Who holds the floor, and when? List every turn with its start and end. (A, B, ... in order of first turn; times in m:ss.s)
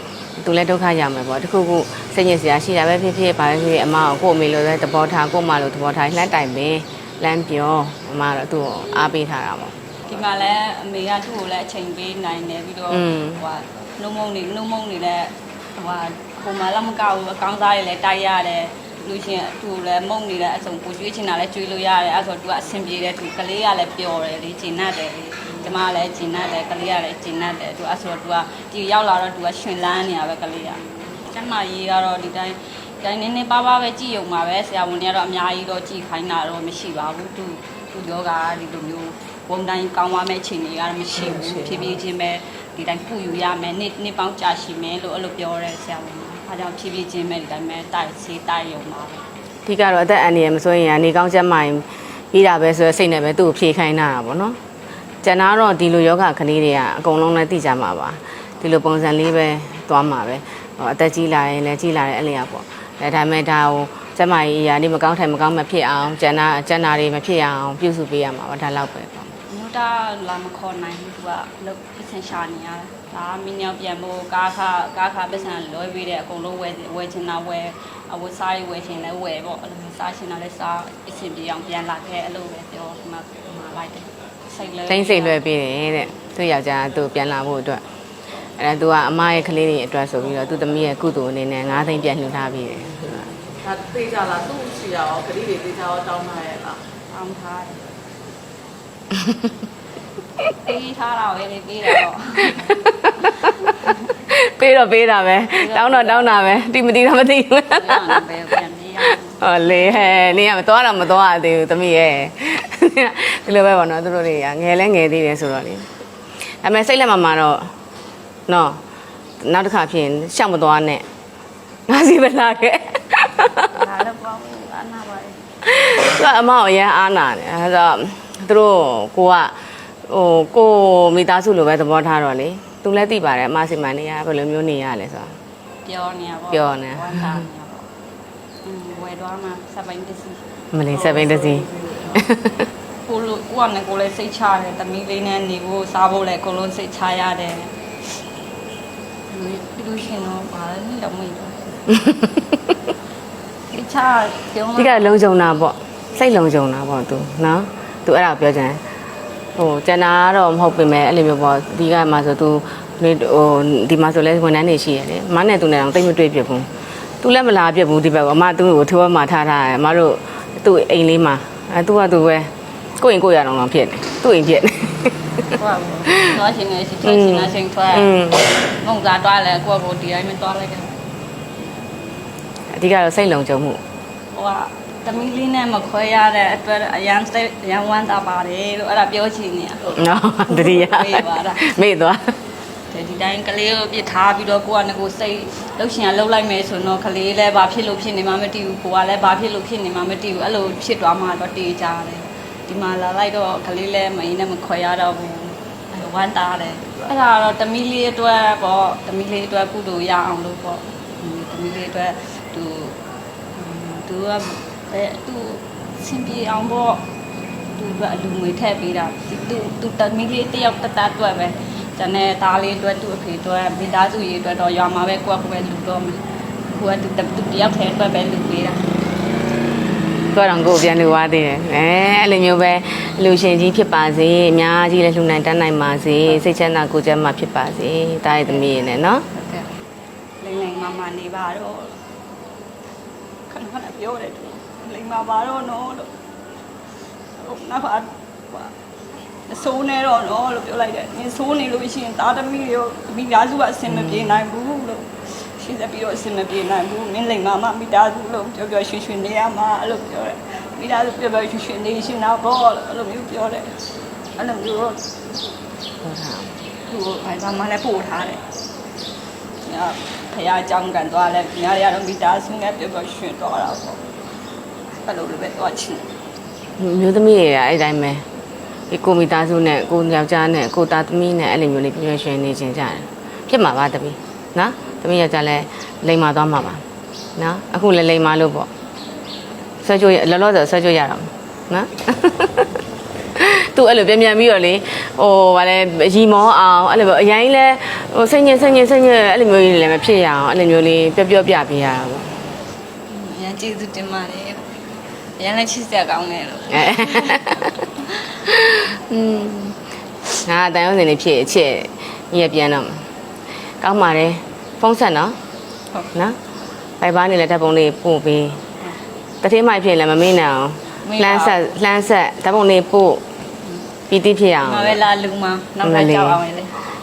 0:00.4-0:09.8 A
0:10.1-0:49.2 B
0:12.9-0:13.4 A
0:49.7-0:54.6 A
0:55.2-1:09.3 A
1:09.5-1:25.4 B
1:24.9-1:27.8 A
1:28.6-1:33.4 A
1:33.7-1:36.8 C
1:37.1-1:37.9 B
1:40.6-1:42.8 B
1:42.5-1:43.7 A
1:43.6-1:44.0 B
1:44.3-1:48.2 A
1:45.6-1:46.5 B
1:47.7-1:49.4 B
1:49.4-1:55.9 A
1:56.6-1:57.7 A
1:58.5-1:58.8 A
1:59.4-2:01.0 A
2:01.9-2:03.7 A
2:03.7-2:05.5 B
2:05.6-2:09.6 A
2:10.1-2:15.4 A
2:15.8-2:17.9 B
2:16.5-2:17.4 A
2:18.6-2:20.4 B
2:20.7-2:22.7 A
2:23.1-2:27.7 B
2:29.3-2:31.8 B
2:31.9-2:32.6 A
2:33.7-2:35.2 B
2:34.8-2:38.8 A
2:39.6-2:46.7 A
2:47.2-2:55.3 A
2:55.5-3:01.0 B
2:57.0-2:58.5 A
3:02.7-3:03.8 A
3:04.3-3:10.0 B
3:09.9-3:12.4 A
3:10.5-3:11.8 B
3:12.9-3:33.0 B
3:33.5-3:37.0 B
3:37.7-3:48.8 B
3:50.3-3:59.3 A
3:59.3-3:59.7 B
4:00.4-4:02.0 B
4:03.5-4:06.1 B
4:07.4-4:08.7 B
4:09.5-4:23.7 B
4:13.9-4:14.4 A
4:24.4-4:25.1 B
4:26.0-4:26.6 A
4:26.9-4:28.4 B
4:29.6-4:34.0 B
4:35.0-4:36.0 B
4:36.8-4:38.2 A
4:38.9-4:46.8 A
4:47.4-4:48.7 A
4:49.8-4:52.8 A
4:53.4-5:02.4 A
5:03.1-5:04.6 B
5:05.4-5:07.4 B
5:06.7-5:07.8 A
5:08.0-5:08.3 B
5:08.5-5:09.8 A
5:10.4-5:13.1 A
5:13.8-5:15.4 A
5:17.0-5:18.6 A
5:19.4-5:23.2 A
5:21.0-5:21.6 B
5:24.1-5:25.0 A
5:24.6-5:26.8 B
5:25.8-5:26.4 A